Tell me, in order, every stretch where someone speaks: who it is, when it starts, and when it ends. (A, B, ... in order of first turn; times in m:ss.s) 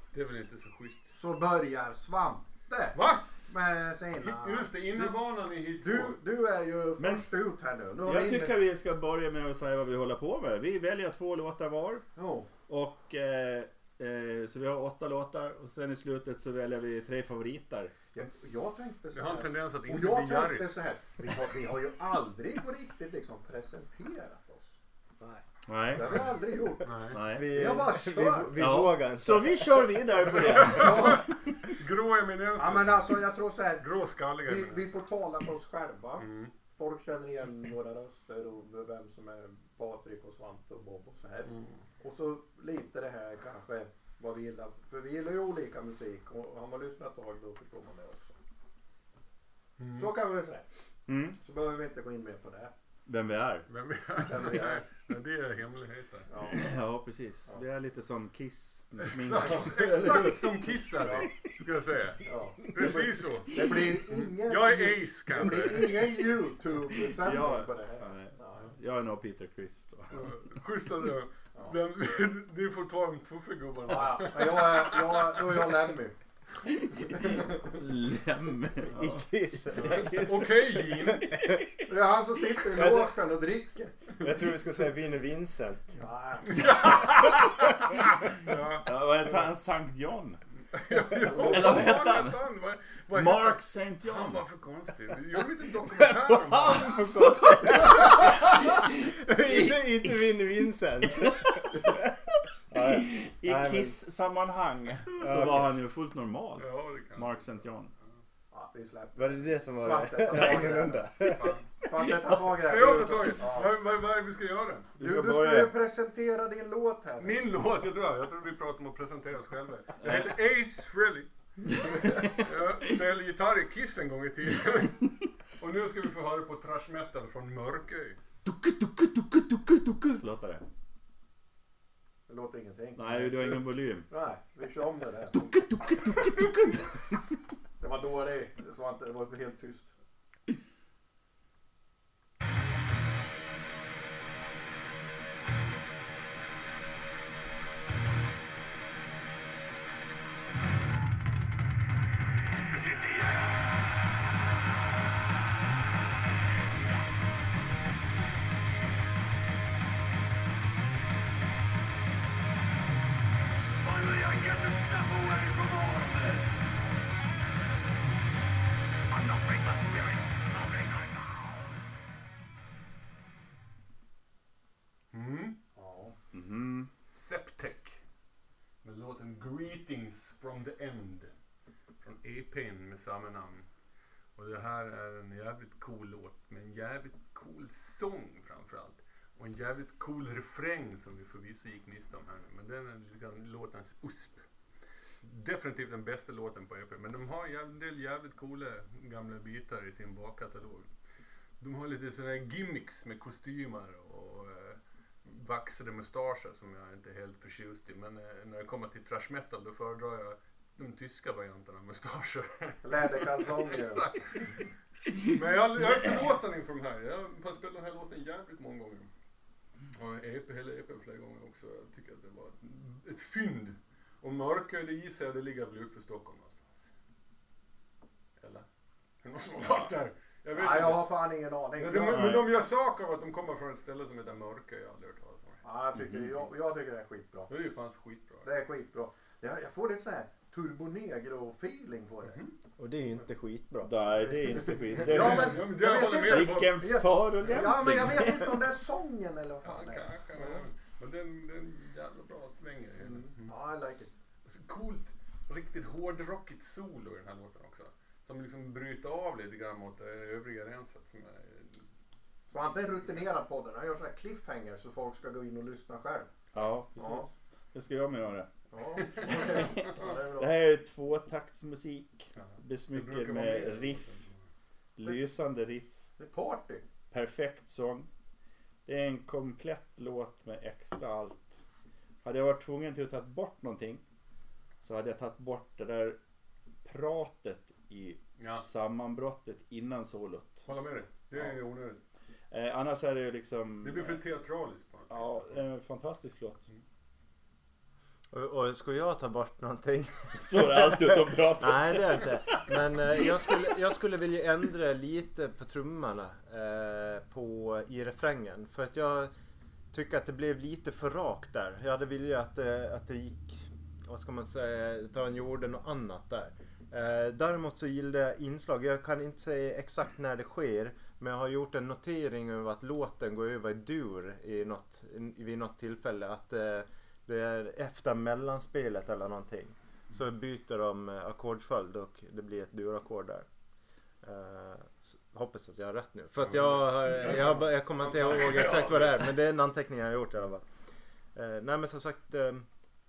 0:00.1-0:01.1 A
0:01.1-0:05.2 B
0:02.9-0:03.3 A
0:04.2-0:06.2 A
0:05.8-0:08.6 B
0:07.0-0:07.3 C
0:08.0-0:12.0 C
0:12.2-0:12.5 B
0:12.7-0:17.9 C
0:18.1-0:28.6 B
0:19.1-0:20.8 A
0:25.6-0:26.3 C
0:26.8-0:27.2 A
0:27.1-0:27.8 C
0:27.3-0:29.8 D
0:28.6-0:31.3 C
0:30.3-0:33.3 A
0:30.6-0:31.3 B
0:32.6-0:48.4 B
0:33.8-0:35.0 A
0:36.2-0:36.5 A
0:41.4-0:41.8 A
0:49.8-0:50.1 A
0:49.9-0:50.6 B
0:51.1-0:51.4 C
0:51.4-0:52.7 B
0:53.1-0:53.7 C
0:53.7-0:56.3 A
0:54.2-0:54.8 B
0:56.3-0:56.7 B
0:56.5-0:59.9 C
0:59.1-1:06.1 A
0:59.4-1:01.3 B
1:02.2-1:08.7 B
1:07.0-1:10.3 C
1:10.1-1:15.8 A
1:13.8-1:16.2 B
1:16.6-1:21.6 C
1:17.1-1:17.8 B
1:18.9-1:20.3 D
1:19.9-1:21.3 A
1:21.3-1:21.6 D
1:21.8-1:24.2 B
1:22.7-1:23.2 D
1:24.2-1:26.0 D
1:26.0-1:27.0 B
1:26.5-1:27.4 A
1:28.2-1:30.4 C
1:28.3-1:29.5 A
1:30.7-1:37.0 A
1:31.4-1:32.4 C
1:33.1-1:34.4 C
1:36.0-1:42.0 D
1:36.7-1:38.1 C
1:39.4-1:40.2 C
1:41.1-1:42.0 C
1:42.7-1:44.0 D
1:42.8-1:47.9 C
1:45.2-1:45.6 D
1:46.6-1:47.5 A
1:48.5-1:53.8 B
1:49.2-1:51.6 D
1:51.3-1:51.7 A
1:52.4-1:54.9 A
1:55.0-1:55.7 C
1:55.0-1:57.4 B
1:57.2-2:01.3 A
2:00.0-2:00.3 C
2:01.7-2:02.2 B
2:02.2-2:05.1 A
2:05.6-2:08.2 A
2:08.4-2:10.6 C
2:12.3-2:16.5 B
2:12.9-2:14.1 C
2:15.3-2:17.2 C
2:17.8-2:19.9 B
2:32.8-2:33.6 E
2:43.9-2:46.5 E
2:49.1-2:51.9 E
2:55.1-2:55.6 A
2:55.7-2:56.2 B
2:56.3-2:56.9 C
2:57.0-2:58.0 A
2:58.8-3:01.3 A
3:02.0-3:03.7 A
3:04.4-3:14.4 A
3:15.2-3:20.9 A
3:21.6-3:34.6 A
3:32.8-3:34.1 B
3:35.1-3:39.1 A
3:39.9-3:46.9 A
3:48.4-3:48.6 A
3:49.2-3:51.2 A
3:50.5-3:52.4 B
3:51.8-3:55.6 A
3:52.1-3:52.5 C
3:55.6-3:57.5 B
3:56.0-3:56.4 C
3:57.5-3:58.5 A
3:58.4-4:02.5 B
4:02.2-4:02.5 A
4:02.8-4:04.3 D
4:03.8-4:08.6 C
4:04.2-4:10.6 B
4:05.0-4:06.8 A
4:09.6-4:13.5 A
4:13.0-4:14.1 B
4:14.4-4:21.8 A
4:22.5-4:27.3 B
4:26.5-4:28.5 C
4:28.7-4:30.6 B
4:29.2-4:29.8 A
4:29.2-4:34.0 C
4:32.4-4:34.4 A
4:35.0-4:36.0 C
4:36.2-4:36.8 B
4:37.1-4:38.1 C
4:38.8-4:41.6 C
4:42.2-4:44.0 C
4:44.8-4:46.2 C
4:46.8-4:50.7 C
4:48.4-4:48.6 A
4:50.6-4:52.0 A
4:52.5-4:54.2 C
4:53.8-4:55.6 A
4:55.1-4:56.7 C
4:58.3-5:09.3 D
5:00.4-5:02.8 C
5:09.9-5:33.4 D
5:34.2-5:40.6 D
5:36.4-5:39.3 A
5:41.3-5:42.7 D